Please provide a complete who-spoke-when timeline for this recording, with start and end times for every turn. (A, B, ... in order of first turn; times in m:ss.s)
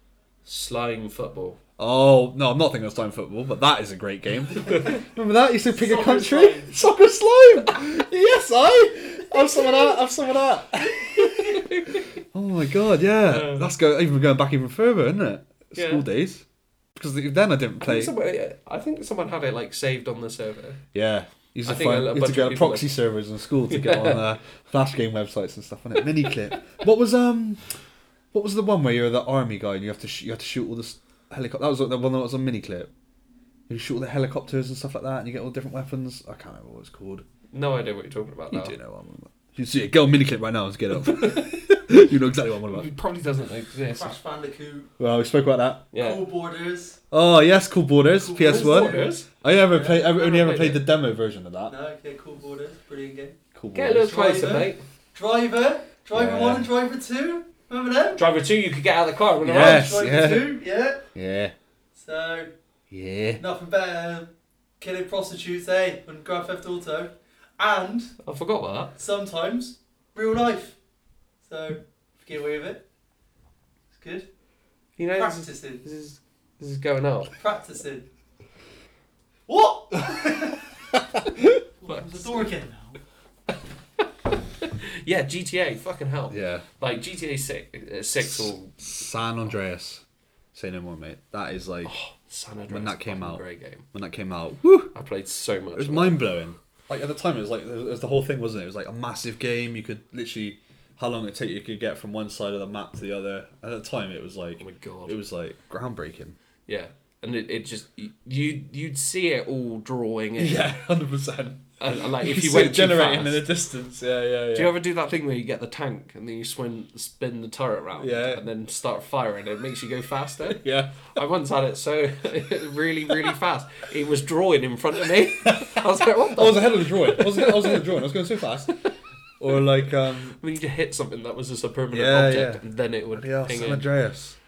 0:00.4-0:01.6 A
0:01.8-0:11.6 B
0:05.7-0:06.7 C
0:11.0-0:12.1 A
0:12.3-0:16.4 B
0:13.2-0:13.7 A
0:15.7-0:16.0 A
0:17.0-0:18.1 B
0:17.8-0:20.8 A
0:20.9-0:27.6 B
0:21.6-0:23.0 A
0:23.7-0:24.2 A
0:28.3-0:32.9 B
0:33.7-0:37.2 B
0:37.5-0:38.8 A
0:38.5-0:42.9 B
0:41.0-0:41.5 A
0:42.7-0:44.1 A
0:43.9-0:44.9 C
0:45.0-0:45.9 B
0:45.9-0:46.2 A
0:46.0-0:47.0 C
0:47.1-0:51.7 B
0:48.2-0:49.2 C
0:48.4-0:49.3 A
0:49.7-0:50.1 C
0:50.1-0:50.8 A
0:51.7-0:53.4 C
0:53.5-0:54.1 B
0:53.7-0:54.8 A
0:54.0-0:58.2 C
0:56.1-0:56.7 B
0:58.2-0:59.9 A
0:59.4-1:00.6 B
0:59.5-1:01.0 C
1:01.1-1:01.5 B
1:02.0-1:02.5 C
1:02.9-1:03.4 B
1:03.4-1:08.2 C
1:08.2-1:08.9 A
1:09.0-1:10.8 C
1:11.4-1:12.8 C
1:13.9-1:14.3 C
1:15.0-1:17.3 A
1:15.1-1:15.8 C
1:17.4-1:18.1 C
1:19.5-1:20.7 C
1:21.8-1:23.0 C
1:21.9-1:22.5 A
1:24.6-1:29.5 A
1:26.3-1:26.6 B
1:28.2-1:30.0 B
1:30.5-1:31.9 B
1:31.8-1:33.9 A
1:32.7-1:34.9 B
1:34.9-1:36.2 A
1:35.8-1:46.4 B
1:44.6-1:45.2 A
1:46.6-1:50.7 A
1:50.4-1:54.8 B
1:51.8-1:53.5 A
1:54.5-2:07.9 A
1:58.0-1:58.4 B
2:00.4-2:01.1 B
2:05.4-2:05.8 B
2:06.4-2:08.8 B
2:09.4-2:10.4 B
2:10.4-2:13.9 A
2:11.9-2:14.4 B